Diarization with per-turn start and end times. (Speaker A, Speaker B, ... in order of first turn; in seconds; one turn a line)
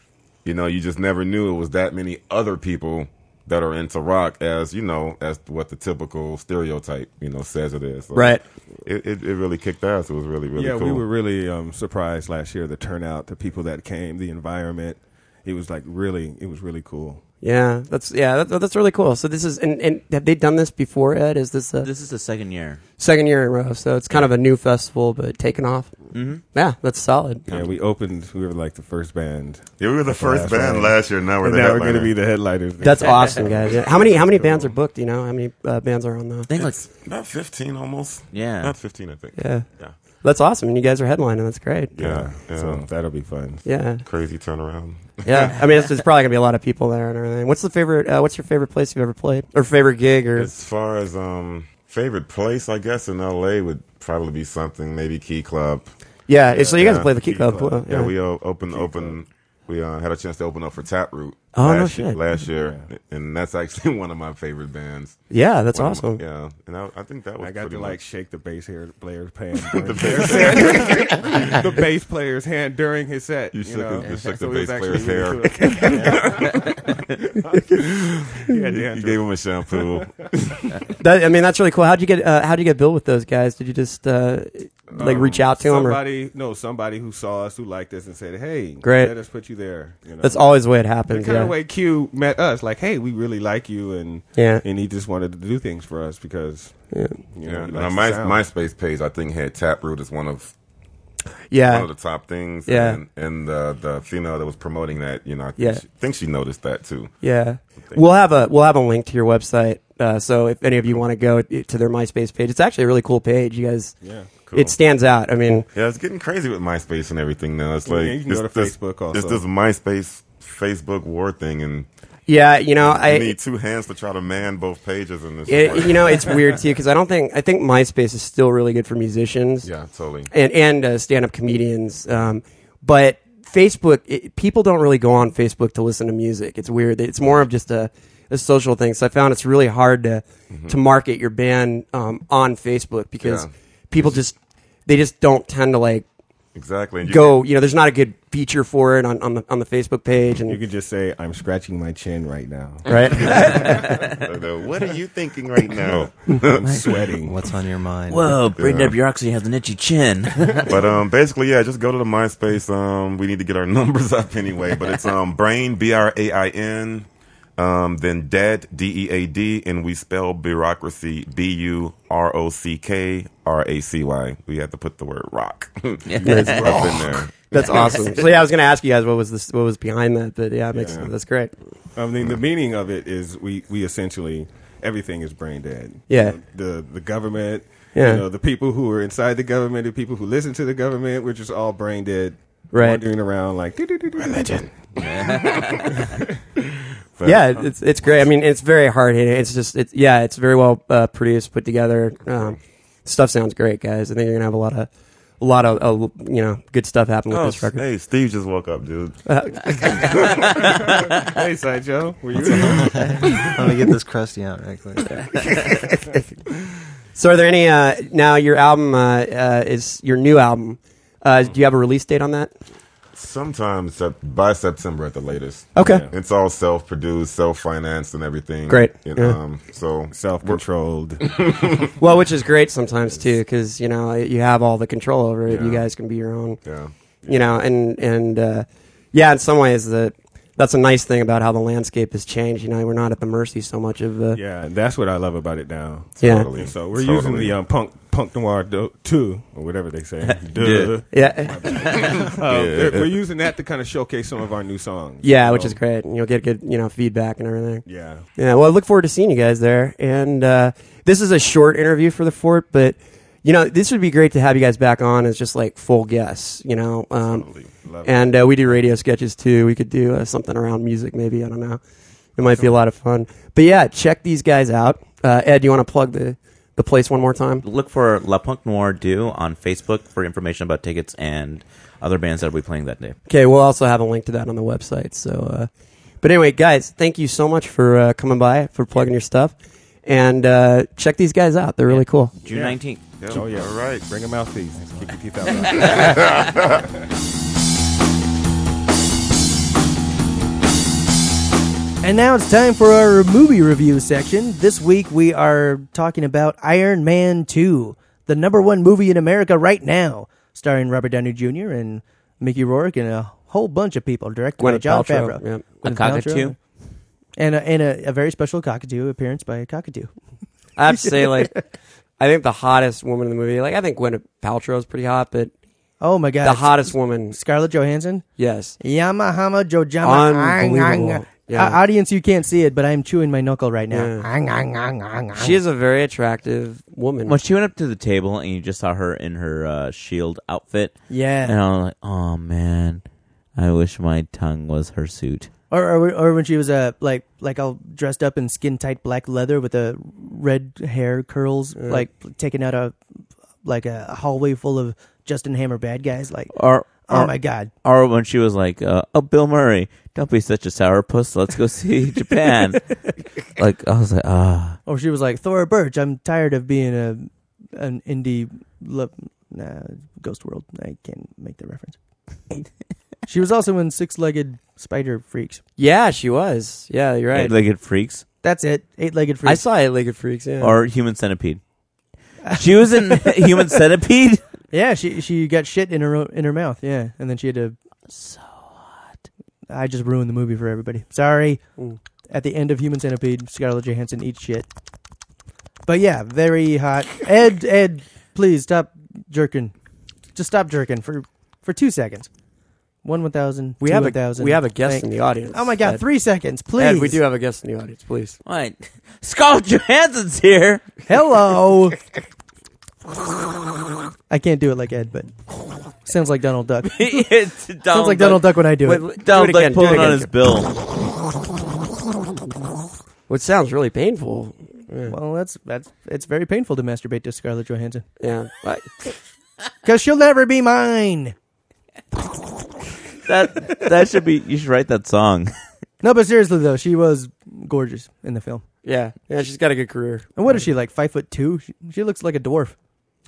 Speaker A: 0.5-11.0
Speaker B: 8.2-8.4
Speaker C: 10.6-17.2
Speaker B: 17.4-21.9
Speaker D: 21.8-22.8
Speaker B: 23.0-27.5
Speaker D: 26.1-26.4
Speaker C: 27.5-34.1
Speaker A: 29.8-32.3
Speaker B: 32.8-36.5
Speaker A: 34.0-34.7
Speaker D: 36.5-36.8
Speaker A: 36.6-40.0
Speaker D: 38.3-38.8
Speaker B: 39.4-42.0
Speaker A: 42.0-42.9
Speaker C: 42.0-43.6
Speaker B: 43.6-44.0
Speaker A: 44.0-45.7
Speaker B: 45.2-50.5
Speaker A: 50.4-55.9
Speaker B: 56.3-58.1
Speaker C: 56.5-59.2
Speaker A: 56.8-65.2
Speaker B: 61.5-62.3
Speaker C: 62.6-62.9
Speaker B: 65.3-66.2
Speaker A: 65.7-68.0
Speaker C: 67.4-76.8
Speaker A: 69.7-71.7
Speaker A: 73.5-76.8
Speaker A: 77.7-80.9
Speaker C: 78.5-80.2
Speaker B: 81.0-86.0
Speaker C: 84.9-90.4
Speaker B: 88.8-89.1
Speaker B: 90.2-91.5
Speaker C: 91.1-98.5
Speaker B: 94.3-94.7
Speaker B: 96.9-97.2
Speaker A: 97.5-100.5
Speaker B: 101.5-101.9
Speaker A: 101.7-107.2
Speaker B: 102.7-103.0
Speaker B: 105.6-105.8
Speaker B: 107.2-114.0
Speaker A: 107.8-108.0
Speaker C: 114.0-114.4
Speaker A: 114.4-114.8
Speaker B: 114.5-115.7
Speaker A: 115.7-121.9
Speaker C: 117.8-119.4
Speaker B: 122.3-123.4
Speaker A: 122.8-126.4
Speaker B: 125.5-129.7
Speaker A: 129.6-130.3
Speaker B: 130.3-146.1
Speaker A: 140.5-140.8
Speaker A: 143.2-144.2
Speaker A: 146.6-147.4
Speaker B: 147.1-150.6
Speaker C: 150.5-153.8
Speaker B: 152.9-154.0
Speaker A: 153.2-156.9
Speaker C: 156.6-157.4
Speaker E: 157.2-158.4
Speaker D: 158.1-160.6
Speaker A: 158.5-159.0
Speaker A: 160.7-178.3
Speaker D: 176.1-177.0
Speaker B: 176.2-181.6
Speaker D: 177.6-178.0
Speaker C: 180.7-181.1
Speaker C: 182.0-194.7
Speaker B: 186.1-186.4
Speaker B: 187.9-188.2
Speaker B: 192.7-193.0
Speaker A: 194.4-194.6
Speaker D: 195.0-196.1
Speaker A: 197.2-197.7
Speaker B: 197.2-204.9
Speaker B: 205.4-207.8
Speaker A: 207.3-210.8
Speaker B: 209.3-210.2
Speaker C: 210.9-213.6
Speaker E: 212.4-215.1
Speaker B: 215.1-216.2
Speaker B: 217.2-222.5
Speaker A: 223.2-230.6
Speaker B: 225.8-226.0
Speaker C: 225.8-226.1
Speaker B: 228.7-229.4
Speaker C: 230.1-231.2
Speaker A: 231.2-232.0
Speaker B: 232.0-236.6
Speaker A: 235.5-235.9
Speaker A: 236.6-236.9
Speaker B: 237.3-244.4
Speaker C: 244.3-255.8
Speaker A: 246.2-247.6
Speaker B: 246.2-246.5
Speaker D: 250.6-251.0
Speaker B: 251.1-251.8
Speaker A: 252.4-253.2
Speaker B: 255.2-267.5
Speaker C: 257.9-258.3
Speaker A: 267.2-268.1
Speaker B: 268.0-271.8
Speaker B: 272.4-277.6
Speaker D: 277.6-283.2
Speaker B: 283.3-285.7
Speaker B: 286.2-289.6
Speaker B: 290.1-292.4
Speaker D: 291.9-293.0
Speaker C: 292.5-292.8
Speaker A: 293.2-294.1
Speaker C: 293.3-296.4
Speaker A: 295.7-296.8
Speaker F: 302.0-316.6
Speaker B: 314.6-315.7
Speaker D: 315.8-316.6
Speaker F: 317.4-320.1
Speaker B: 320.8-321.6
Speaker F: 320.9-321.6
Speaker B: 322.2-325.5
Speaker F: 326.0-328.2
Speaker B: 326.4-327.4
Speaker B: 328.4-328.8
Speaker F: 328.8-335.6
Speaker B: 330.0-331.8
Speaker B: 333.9-334.3
Speaker B: 335.4-337.4
Speaker D: 337.3-343.0
Speaker F: 341.1-341.6
Speaker D: 343.6-345.5
Speaker F: 345.7-353.0
Speaker B: 351.8-352.1
Speaker F: 353.6-357.7
Speaker D: 356.5-362.8
Speaker D: 363.5-364.8
Speaker F: 364.9-372.0
Speaker F: 373.3-375.6
Speaker B: 375.8-377.6
Speaker D: 377.3-378.2
Speaker F: 378.4-379.6
Speaker B: 379.4-380.8
Speaker D: 380.6-381.6
Speaker F: 382.4-383.6
Speaker D: 382.5-384.4
Speaker F: 384.7-387.8
Speaker D: 388.1-389.2
Speaker F: 389.7-391.6
Speaker F: 392.3-394.7
Speaker F: 395.9-399.7
Speaker F: 400.4-402.3
Speaker F: 403.0-407.2
Speaker B: 403.8-406.0
Speaker B: 406.8-408.4
Speaker D: 408.4-410.8
Speaker F: 411.1-412.0
Speaker F: 414.3-415.3
Speaker F: 416.1-417.3
Speaker D: 416.8-418.5
Speaker F: 417.9-419.0
Speaker B: 418.8-420.3
Speaker D: 419.2-420.7
Speaker B: 423.3-425.2
Speaker F: 425.1-428.1
Speaker B: 428.2-429.1
Speaker F: 429.8-431.4
Speaker D: 433.2-435.5
Speaker F: 436.0-438.6
Speaker B: 438.8-440.3
Speaker F: 440.4-442.8